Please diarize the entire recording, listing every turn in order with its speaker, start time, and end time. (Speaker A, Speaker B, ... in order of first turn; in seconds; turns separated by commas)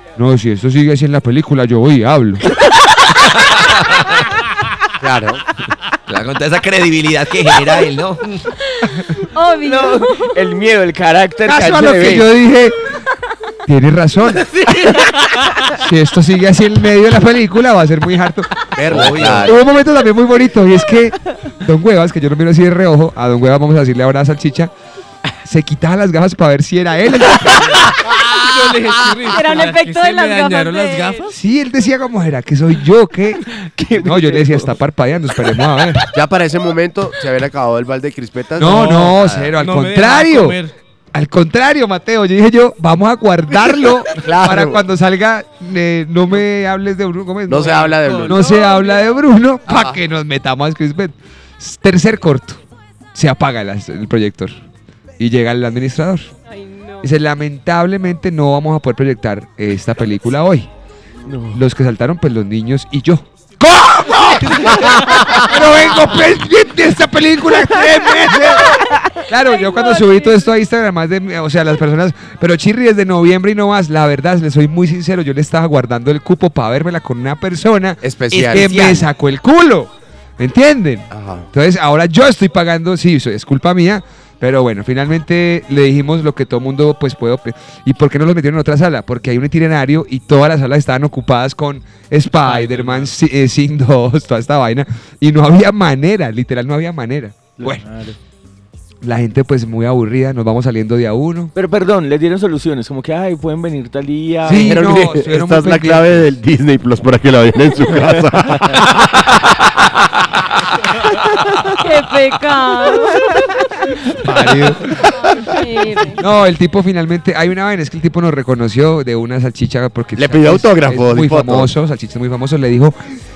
Speaker A: 0.1-2.5, Speaker B: 3.1-4.0, Speaker C: 5.0-5.4, Speaker B: 6.1-8.5, Speaker D: 8.7-10.4, Speaker E: 9.6-12.3, Speaker A: 11.4-12.8, Speaker A: 13.7-14.5, Speaker F: 15.0-15.7, Speaker A: 15.6-24.7, Speaker C: 18.7-19.6, Speaker B: 18.9-19.5, Speaker A: 25.4-27.9, Speaker F: 27.7-31.3, Speaker D: 29.3-31.3, Speaker A: 31.3-36.0, Speaker E: 33.5-34.8, Speaker C: 36.1-39.5, Speaker A: 38.6-40.6, Speaker F: 38.6-40.7, Speaker A: 41.1-52.6, Speaker C: 44.1-44.8, Speaker C: 47.5-48.4, Speaker F: 47.6-48.8, Speaker D: 48.7-49.1, Speaker C: 49.7-50.0, Speaker A: 53.1-54.5, Speaker A: 55.2-56.3, Speaker D: 56.5-57.1, Speaker A: 57.0-60.7, Speaker E: 61.3-61.6, Speaker A: 61.5-97.8, Speaker D: 69.5-70.5, Speaker C: 78.0-79.0, Speaker B: 78.3-79.1, Speaker C: 81.1-81.5, Speaker F: 92.4-93.1, Speaker E: 97.6-98.2, Speaker A: 99.0-101.5, Speaker E: 101.5-104.7, Speaker A: 104.4-106.3, Speaker C: 104.5-109.4, Speaker D: 111.8-113.2, Speaker A: 114.2-115.0, Speaker D: 115.4-116.2, Speaker A: 116.2-123.0, Speaker C: 120.1-121.7